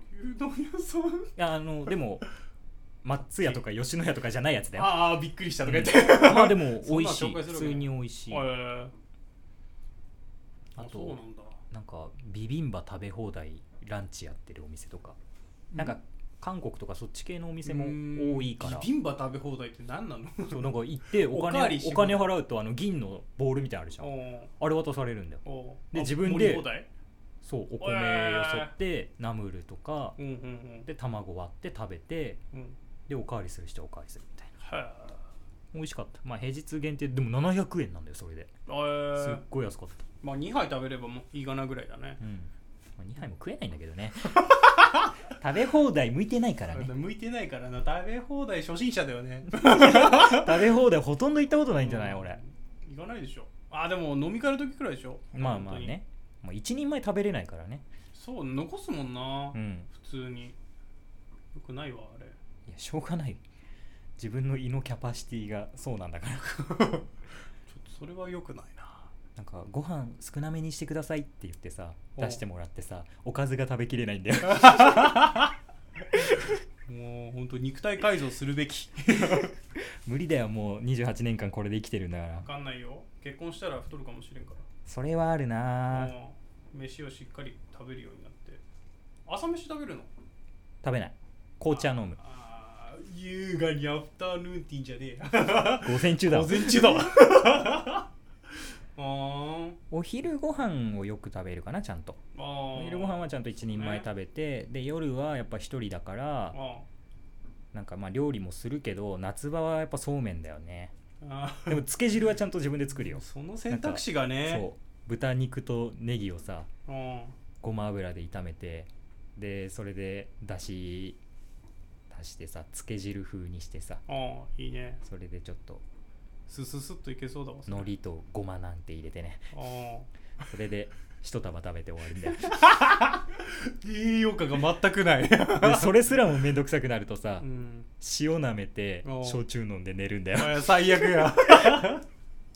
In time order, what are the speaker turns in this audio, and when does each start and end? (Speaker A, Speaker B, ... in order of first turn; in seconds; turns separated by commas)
Speaker A: 0.1-1.3, Speaker B: 1.4-2.2, Speaker B: 3.0-5.1, Speaker A: 4.7-8.9, Speaker B: 5.6-8.5, Speaker B: 10.8-11.2, Speaker A: 10.8-11.6, Speaker B: 11.7-15.2, Speaker A: 15.7-16.0, Speaker B: 15.8-18.9, Speaker A: 17.6-22.3, Speaker B: 20.5-26.7, Speaker A: 24.0-24.5, Speaker A: 25.4-26.9, Speaker B: 27.4-30.2, Speaker A: 27.8-28.7, Speaker A: 30.2-30.9, Speaker B: 30.9-32.4, Speaker B: 33.1-34.5, Speaker A: 34.6-35.2, Speaker B: 35.7-38.5, Speaker A: 38.7-39.4, Speaker B: 39.1-40.0, Speaker A: 40.2-42.2, Speaker B: 42.2-44.4, Speaker A: 44.4-45.1, Speaker B: 45.4-47.0, Speaker A: 46.7-50.6, Speaker B: 49.5-52.4, Speaker A: 51.7-56.0, Speaker B: 55.3-57.8, Speaker A: 58.1-60.5, Speaker B: 59.5-59.9, Speaker A: 61.5-62.4, Speaker B: 62.7-63.4, Speaker B: 64.2-66.7, Speaker A: 66.7-67.0, Speaker A: 67.7-69.1, Speaker B: 69.3-75.2, Speaker A: 74.6-75.5, Speaker A: 76.9-79.5, Speaker B: 80.0-82.5, Speaker A: 82.4-84.6, Speaker B: 84.8-86.1, Speaker A: 85.9-88.6, Speaker A: 89.2-90.1, Speaker B: 90.8-92.2, Speaker A: 91.7-98.1, Speaker B: 95.8-97.0, Speaker A: 99.0-99.8, Speaker B: 99.9-102.2, Speaker A: 102.3-104.1, Speaker B: 102.7-106.5, Speaker A: 106.5-106.8, Speaker B: 107.7-110.9, Speaker A: 111.2-111.9, Speaker B: 111.7-116.7, Speaker A: 113.0-114.7, Speaker A: 116.9-117.3, Speaker B: 117.6-121.2, Speaker B: 122.1-124.0, Speaker A: 124.1-125.0, Speaker B: 125.0-125.8, Speaker A: 126.5-127.9, Speaker B: 127.7-129.5, Speaker A: 129.5-130.1, Speaker B: 130.5-132.6, Speaker A: 132.5-136.0, Speaker B: 135.6-137.4, Speaker A: 137.4-137.9, Speaker B: 138.0-140.8, Speaker A: 139.0-139.4, Speaker A: 140.3-142.0